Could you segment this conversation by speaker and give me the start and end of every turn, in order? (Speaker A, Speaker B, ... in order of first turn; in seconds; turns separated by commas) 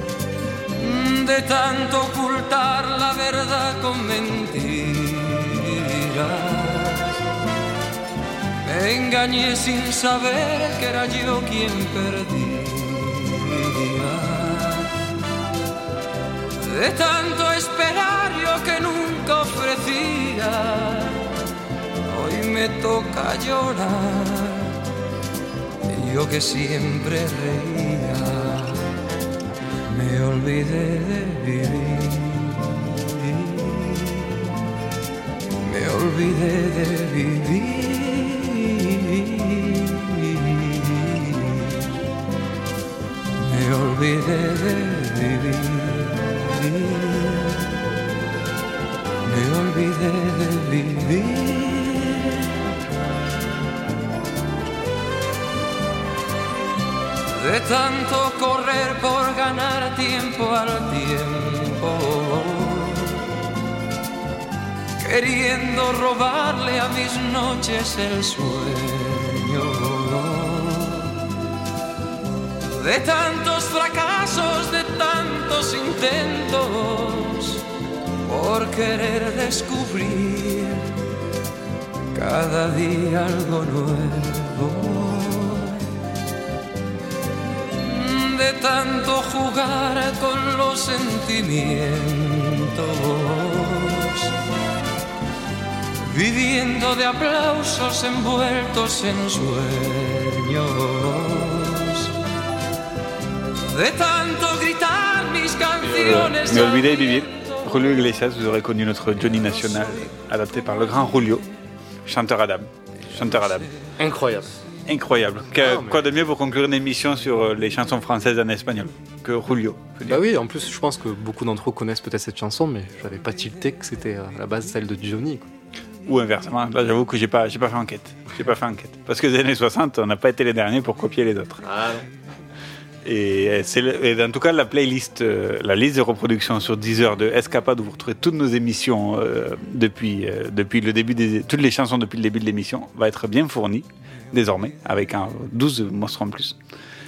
Speaker A: 0.8-5.4, Speaker A: 6.2-7.0, Speaker A: 8.7-13.3, Speaker A: 13.9-14.7, Speaker A: 16.7-21.1, Speaker A: 22.1-24.6, Speaker A: 26.0-28.6, Speaker A: 29.9-32.3, Speaker A: 35.7-38.4, Speaker A: 43.5-45.9, Speaker A: 46.6-47.5, Speaker A: 49.3-51.8, Speaker A: 57.4-62.9, Speaker A: 65.0-70.9, Speaker A: 72.8-77.6, Speaker A: 78.3-80.7, Speaker A: 82.2-85.6, Speaker A: 87.9-94.0, Speaker A: 96.1-101.7, Speaker A: 103.8-107.0, Speaker B: 105.8-111.4, Speaker B: 112.0-113.7, Speaker C: 114.0-114.6, Speaker B: 114.9-120.2, Speaker C: 115.6-116.0, Speaker C: 120.1-125.5, Speaker B: 126.0-131.7, Speaker C: 131.7-132.0, Speaker B: 133.0-146.6